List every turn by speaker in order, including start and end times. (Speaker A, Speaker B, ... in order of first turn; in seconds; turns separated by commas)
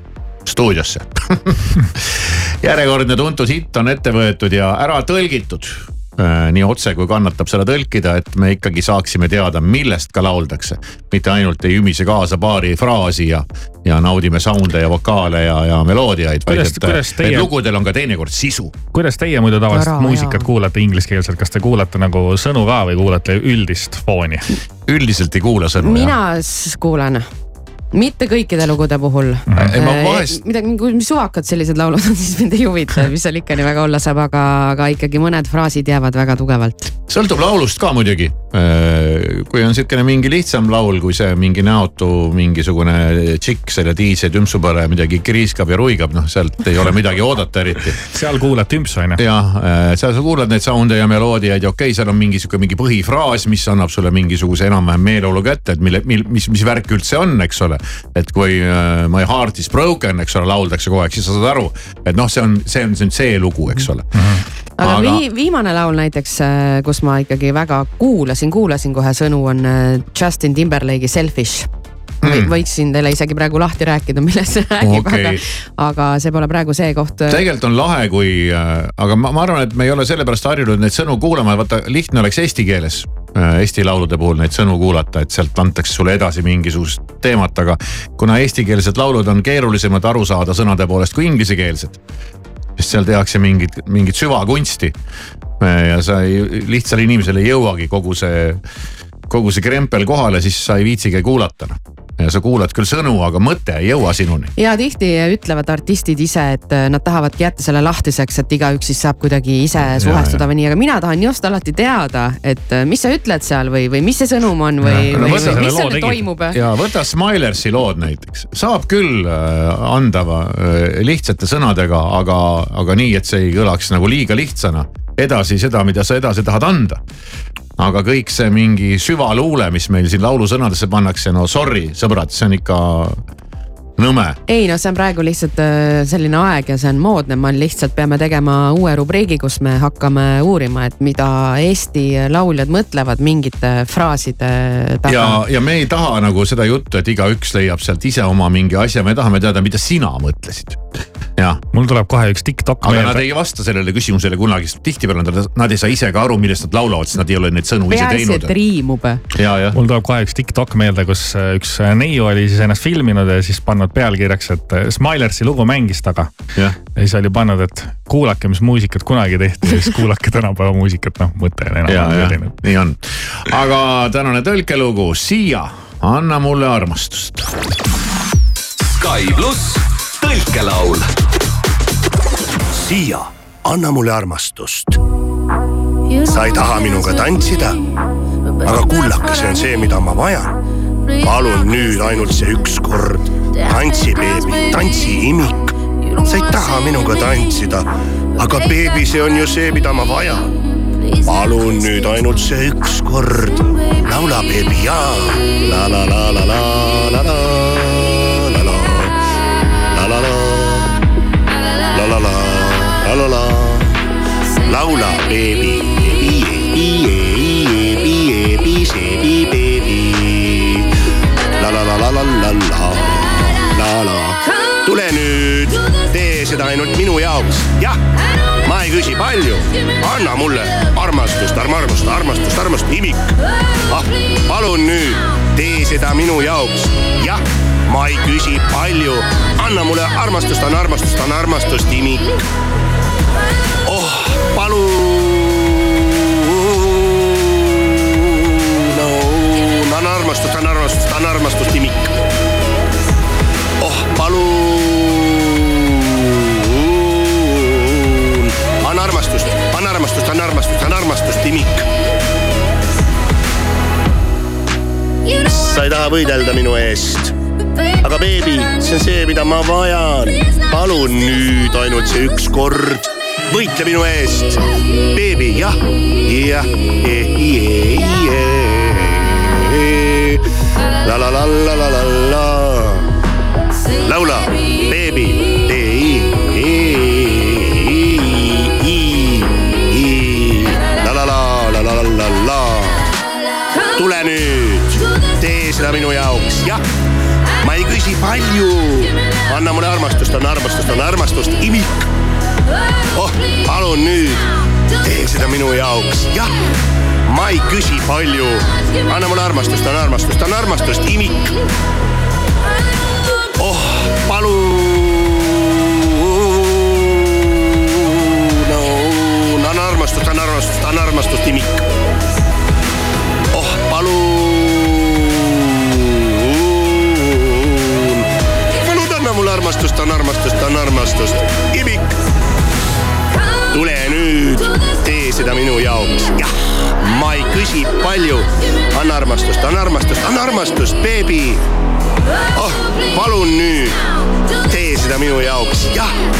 Speaker A: 0.5-18.7, Speaker B: 16.5-17.5, Speaker B: 18.9-24.5, Speaker C: 19.7-20.5, Speaker A: 24.9-26.2, Speaker C: 25.8-27.3, Speaker C: 27.9-36.9, Speaker A: 29.6-30.4, Speaker A: 37.1-48.0, Speaker B: 48.1-49.2, Speaker A: 49.2-64.1, Speaker B: 64.2-64.4, Speaker C: 64.8-71.7, Speaker A: 64.8-65.2, Speaker A: 72.2-72.5, Speaker C: 72.2-77.4, Speaker A: 74.8-75.4, Speaker A: 77.3-92.0, Speaker A: 92.8-95.0, Speaker A: 95.6-98.6, Speaker A: 99.3-104.5, Speaker C: 104.6-116.6, Speaker A: 109.8-110.4, Speaker B: 114.8-116.3, Speaker A: 115.1-115.7, Speaker A: 116.5-127.0, Speaker A: 127.8-133.2, Speaker A: 134.0-134.4, Speaker C: 134.5-145.4, Speaker A: 145.1-150.8, Speaker B: 151.7-153.2, Speaker A: 152.8-158.5, Speaker C: 157.9-159.2, Speaker A: 159.3-159.8, Speaker B: 159.7-166.3, Speaker B: 166.9-172.5, Speaker A: 171.9-177.4, Speaker D: 178.9-181.1, Speaker E: 182.7-185.0, Speaker E: 186.2-187.8, Speaker E: 188.6-190.6, Speaker E: 191.2-200.5, Speaker E: 201.2-209.1, Speaker E: 209.9-210.9, Speaker E: 211.9-213.9, Speaker E: 214.7-220.9, Speaker E: 221.6-228.0, Speaker E: 228.7-233.3, Speaker E: 233.9-242.2, Speaker E: 243.9-252.1, Speaker E: 253.8-261.9, Speaker E: 265.4-267.3, Speaker E: 268.0-274.6, Speaker E: 275.1-280.4, Speaker E: 281.0-283.0, Speaker E: 284.1-293.0, Speaker E: 293.9-296.8, Speaker E: 297.6-302.0, Speaker E: 303.1-304.4, Speaker E: 305.0-306.6, Speaker E: 307.3-311.5, Speaker E: 313.6-321.8, Speaker E: 323.5-328.3, Speaker E: 328.8-332.1, Speaker E: 333.7-341.6, Speaker E: 342.6-344.0, Speaker E: 344.6-346.2